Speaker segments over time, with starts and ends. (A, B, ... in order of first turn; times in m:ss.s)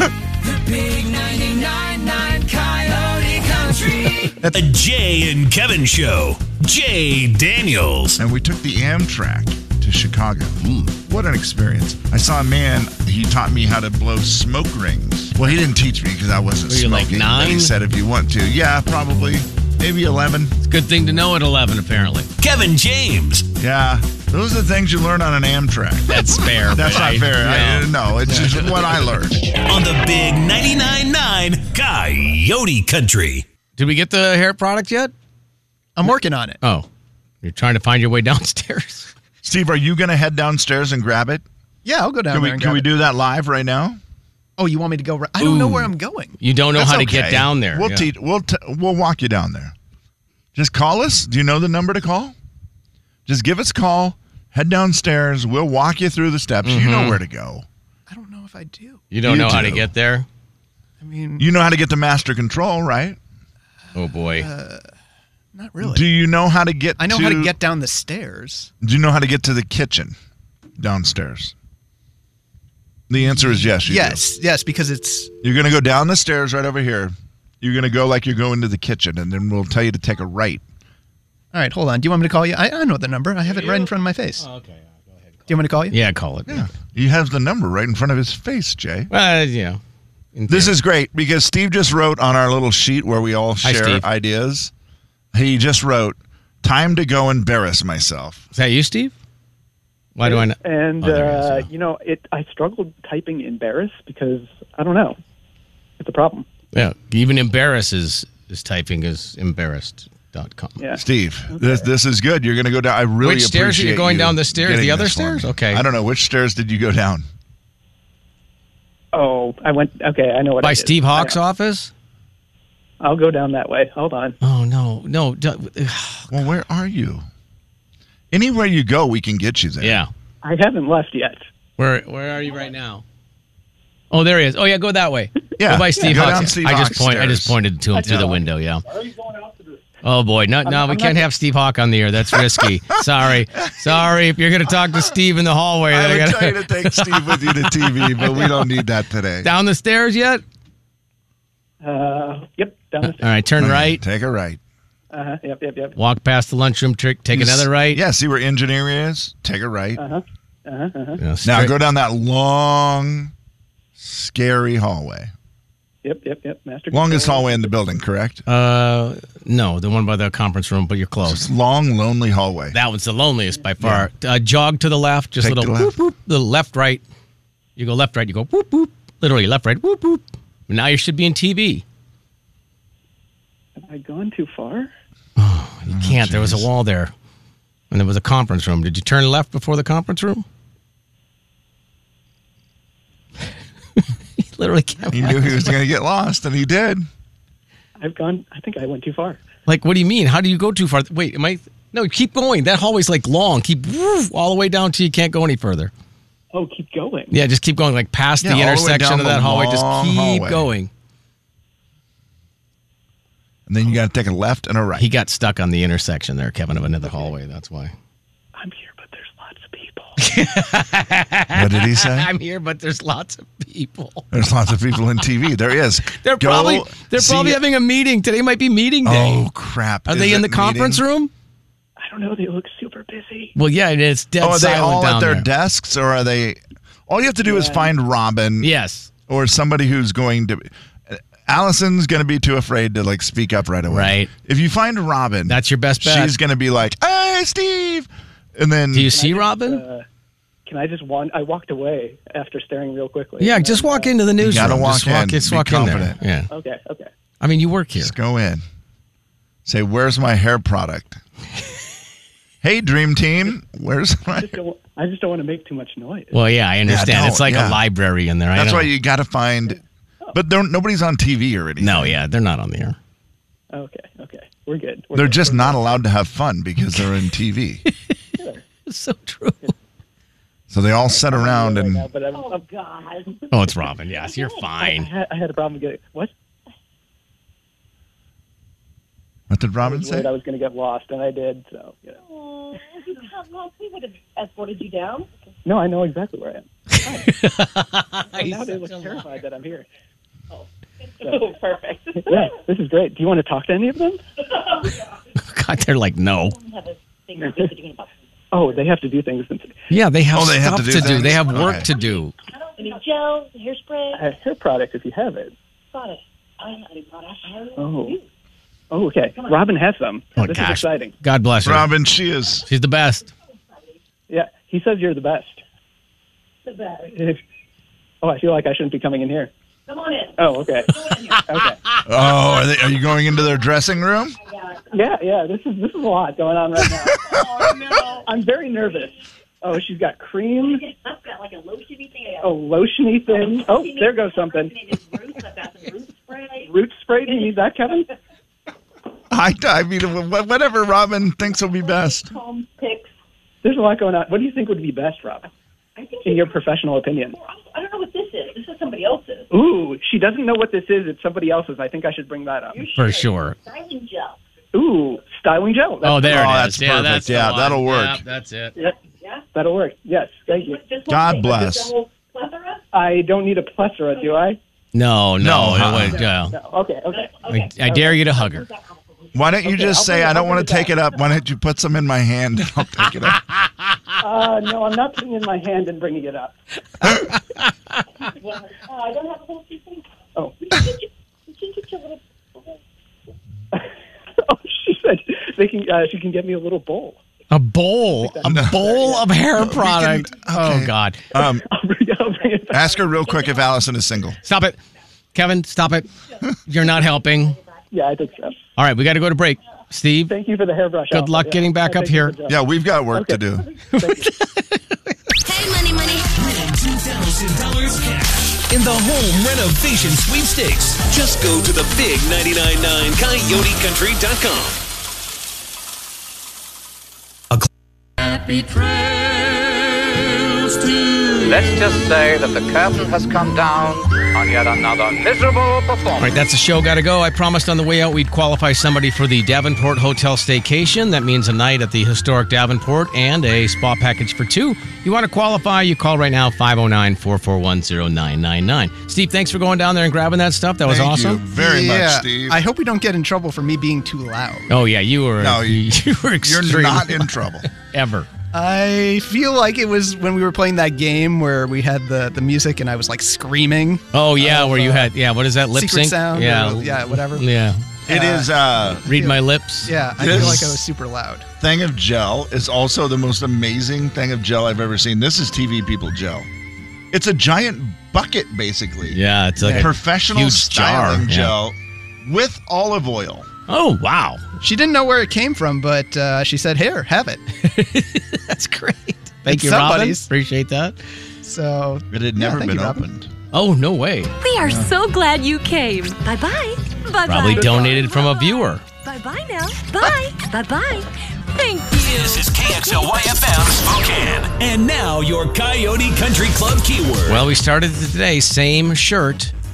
0:00.4-0:04.4 A
0:04.5-0:08.2 B
0:08.2-0:20.6 C
0:10.6-0:10.9 D
0:16.7-0:17.7 D
0:20.6-0:22.3 D
0:22.4-0:23.5 B
0:23.6-0:29.4 C
0:26.1-0:28.8 D
0:28.3-0:28.6 E
0:29.7-0:33.5 B
0:33.8-0:35.1 D
0:36.0-0:36.6 E
0:36.6-0:36.9 D
0:37.4-0:39.1 D
0:39.4-0:41.4 C
0:41.8-0:42.9 E
0:42.3-0:44.0 C
0:44.6-0:46.4 E
0:45.4-0:48.1 D
0:46.7-0:49.7 C
0:50.6-0:52.4 C
0:53.3-0:57.7 C
0:56.6-0:57.2 D
0:58.1-0:59.0 E
0:59.1-1:00.3 D
0:59.2-0:59.9 C
1:01.0-1:01.5 E
1:01.4-1:03.2 C
1:04.0-1:04.5 D
1:04.2-1:04.9 E
1:05.6-1:06.1 E
1:05.8-1:07.5 C
1:07.0-1:08.7 E
1:08.8-1:10.2 C
1:10.8-1:11.5 C
1:13.1-1:14.2 C
1:13.2-1:15.3 E
1:15.4-1:20.6 C
1:21.5-1:24.4 E
1:23.5-1:26.7 D
1:25.5-1:26.0 E
1:26.5-1:29.1 C
1:29.1-1:29.8 D
1:30.4-1:30.8 D
1:30.5-1:34.7 C
1:33.6-1:34.1 D
1:35.3-1:38.4 C
1:38.6-1:39.1 D
1:40.2-1:41.7 D
1:40.2-1:45.2 F
1:46.0-1:46.5 F
1:46.7-1:50.8 D
1:50.8-1:51.9 F
1:51.0-1:57.3 C
1:53.2-1:55.8 D
1:59.1-2:01.4 F
2:00.6-2:01.9 D
2:03.0-2:04.4 F
2:04.4-2:06.3 D
2:06.3-2:07.3 C
2:08.3-2:10.0 C
2:09.8-2:10.1 D
2:10.4-2:11.4 F
2:11.8-2:13.0 D
2:14.1-2:18.9 D
2:15.6-2:18.4 C
2:18.0-2:18.3 F
2:20.0-2:28.7 D
2:20.6-2:21.3 F
2:22.3-2:22.7 C
2:23.6-2:24.0 C
2:25.9-2:29.5 C
2:29.4-2:30.4 D
2:31.8-2:33.4 F
2:33.0-2:34.0 D
2:33.6-2:34.6 C
2:35.1-2:36.0 F
2:36.0-2:38.0 D
2:37.3-2:40.0 C
2:40.0-2:41.2 F
2:41.2-2:41.7 D
2:41.4-2:43.3 C
2:44.0-2:45.3 C
2:46.0-2:47.7 F
2:46.9-2:48.4 C
2:48.5-2:51.4 D
2:51.2-2:52.8 C
2:52.7-2:57.0 D
2:53.8-2:54.1 C
2:55.4-2:56.0 C
2:57.8-3:01.8 D
3:03.8-3:04.9 F
3:05.4-3:07.1 D
3:05.9-3:06.7 C
3:07.9-3:10.4 D
3:14.0-3:15.8 D
3:15.1-3:17.1 C
3:18.0-3:19.4 F
3:19.7-3:25.9 D
3:26.5-3:27.4 F
3:27.3-3:30.9 D
3:28.4-3:30.7 C
3:33.7-3:35.1 C
3:35.0-3:37.9 D
3:38.6-3:40.2 F
3:40.2-3:44.3 D
3:41.5-3:42.3 C
3:44.3-3:47.6 C
3:46.1-3:49.4 D
3:49.0-3:51.0 C
3:50.1-3:51.3 D
3:52.0-3:53.5 F
3:53.6-3:55.5 D
3:54.4-3:58.7 C
3:57.4-3:57.9 F
3:58.6-3:59.1 D
3:59.3-4:09.2 C
4:03.9-4:04.3 D
4:05.5-4:06.4 D
4:08.9-4:09.8 D
4:09.0-4:10.1 F
4:10.7-4:14.2 F
4:13.4-4:16.5 D
4:14.4-4:16.2 C
4:16.5-4:17.1 F
4:17.4-4:18.1 D
4:18.0-4:18.6 C
4:19.7-4:21.2 C
4:22.6-4:24.6 C
4:24.3-4:26.3 F
4:26.3-4:28.9 D
4:26.9-4:27.8 C
4:28.6-4:29.8 C
4:30.3-4:32.2 C
4:31.8-4:33.0 D
4:33.7-4:36.0 F
4:35.1-4:37.8 C
4:38.4-4:38.6 F
4:38.9-4:39.8 D
4:40.7-4:42.1 C
4:41.1-4:42.6 F
4:42.3-4:44.8 G
4:43.5-4:45.1 D
4:44.8-4:46.3 F
4:49.5-4:50.3 C
4:49.8-4:52.2 F
4:52.2-4:55.3 G
4:55.6-4:57.3 F
4:57.1-4:59.2 D
4:58.3-4:59.9 F
5:00.5-5:02.6 G
5:01.2-5:01.6 F
5:02.2-5:04.2 F
5:05.4-5:06.6 D
5:06.6-5:08.1 G
5:07.4-5:07.7 F
5:08.5-5:09.8 F
5:09.9-5:12.3 D
5:10.3-5:11.9 C
5:11.5-5:14.4 G
5:14.1-5:15.6 F
5:15.9-5:18.2 G
5:17.8-5:18.2 F
5:18.9-5:21.1 F
5:20.4-5:21.9 D
5:21.6-5:22.7 C
5:22.7-5:23.3 D
5:24.3-5:25.6 F
5:26.7-5:27.1 G
5:27.1-5:27.4 F
5:28.2-5:29.5 F
5:29.9-5:31.4 G
5:30.4-5:31.8 F
5:32.0-5:34.4 C
5:34.5-5:34.8 G
5:34.9-5:37.4 F
5:37.1-5:39.1 G
5:37.1-5:37.8 C
5:38.2-5:40.8 F
5:40.7-5:42.7 G
5:42.4-5:44.8 F
5:43.3-5:47.5 G
5:46.6-5:48.1 F
5:49.3-5:52.3 C
5:51.8-5:53.1 G
5:53.6-5:55.5 F
5:56.0-5:59.5 G
5:56.2-5:57.4 F
5:59.5-6:02.8 F
6:02.7-6:04.4 G
6:03.0-6:03.6 D
6:04.7-6:06.5 F
6:06.0-6:08.8 D
6:06.2-6:08.2 C
6:09.5-6:10.8 F
6:10.5-6:12.8 G
6:11.1-6:11.9 C
6:12.9-6:14.6 F
6:14.9-6:16.6 D
6:15.4-6:16.3 C
6:16.5-6:18.2 F
6:17.1-6:19.0 G
6:17.5-6:18.7 D
6:19.3-6:23.4 C
6:19.6-6:20.9 F
6:24.2-6:27.2 F
6:28.3-6:30.0 G
6:30.4-6:30.8 F
6:30.6-6:32.8 G
6:34.4-6:37.2 F
6:37.5-6:41.2 D
6:38.2-6:39.3 F
6:38.4-6:38.9 C
6:39.5-6:41.7 C
6:41.4-6:43.0 F
6:42.7-6:44.4 C
6:44.4-6:44.8 D
6:45.3-6:46.1 D
6:46.7-6:47.6 D
6:47.9-6:48.6 F
6:48.8-6:50.4 D
6:50.3-6:54.3 F
6:51.1-6:52.4 D
6:52.5-6:53.7 C
6:53.9-6:55.2 D
6:55.4-6:56.3 A
6:56.4-7:04.8 B
7:08.2-7:09.6 A
7:11.4-7:16.3 H
7:16.2-7:31.4 D
7:30.8-7:32.6 C
7:31.6-7:34.7 E
7:34.7-7:38.3 D
7:35.4-7:37.7 C
7:38.5-7:45.1 E
7:44.1-7:47.9 D
7:45.7-7:47.5 E
7:48.1-7:51.5 E
7:48.1-7:49.0 C
7:48.9-7:50.6 D
7:50.2-7:50.8 C
7:51.6-7:56.5 C
7:57.1-7:59.2 C
7:59.1-8:01.6 D
7:59.6-7:59.9 E
7:59.7-8:03.5 C
8:03.7-8:04.4 D
8:04.6-8:07.4 E
8:07.6-8:11.0 D
8:09.4-8:10.3 E
8:11.4-8:13.0 E
8:12.1-8:13.3 C
8:13.5-8:14.3 D
8:14.4-8:23.2 A
8:14.6-8:14.9 C
8:17.3-8:18.8 D
8:22.0-8:27.4 B
8:27.3-8:29.5 D